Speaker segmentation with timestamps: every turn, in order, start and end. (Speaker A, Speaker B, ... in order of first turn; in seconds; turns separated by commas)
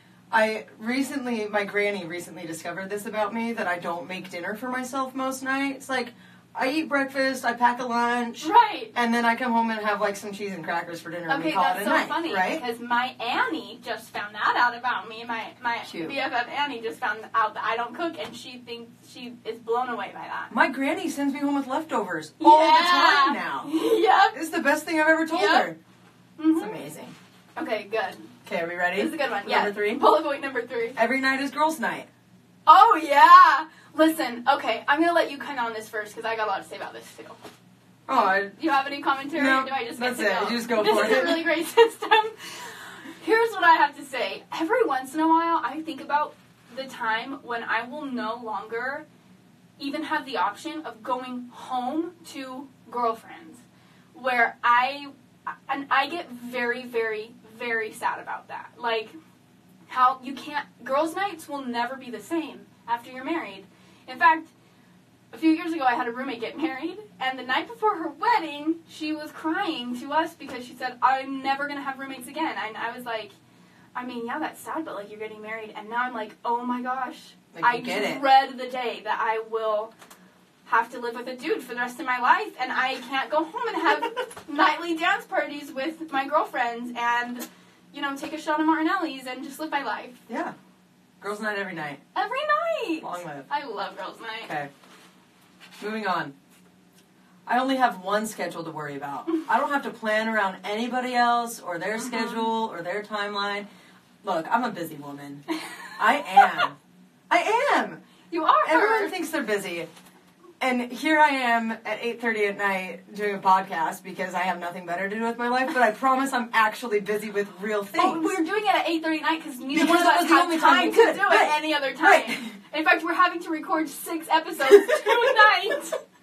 Speaker A: 0.3-12.6, Speaker B: 8.4-8.9, Speaker B: 11.3-20.5, Speaker A: 15.9-16.2, Speaker A: 20.5-23.7, Speaker B: 22.4-24.4, Speaker A: 24.3-25.8, Speaker B: 25.3-25.7, Speaker B: 26.4-26.8, Speaker A: 26.6-27.1, Speaker B: 27.6-28.4, Speaker A: 28.4-30.0, Speaker B: 28.9-31.0, Speaker A: 31.0-32.1, Speaker B: 32.7-37.4, Speaker A: 38.1-38.5, Speaker B: 38.5-49.0, Speaker A: 39.4-41.5, Speaker B: 49.8-53.6, Speaker B: 54.1-55.1, Speaker B: 55.7-59.1, Speaker B: 59.9-64.5, Speaker B: 65.3-73.3, Speaker B: 74.0-79.9, Speaker A: 77.5-78.2, Speaker B: 80.7-90.2, Speaker A: 90.3-90.5, Speaker A: 91.2-92.0, Speaker B: 92.2-94.5, Speaker A: 93.0-93.5, Speaker A: 94.5-94.7, Speaker A: 95.8-96.3, Speaker A: 97.5-103.7, Speaker B: 102.0-102.5, Speaker A: 104.2-105.4, Speaker A: 106.0-106.8, Speaker A: 107.3-108.0, Speaker B: 108.3-109.1, Speaker A: 108.6-109.9, Speaker A: 110.6-118.4, Speaker B: 118.0-126.0, Speaker A: 119.7-122.5, Speaker A: 124.6-125.5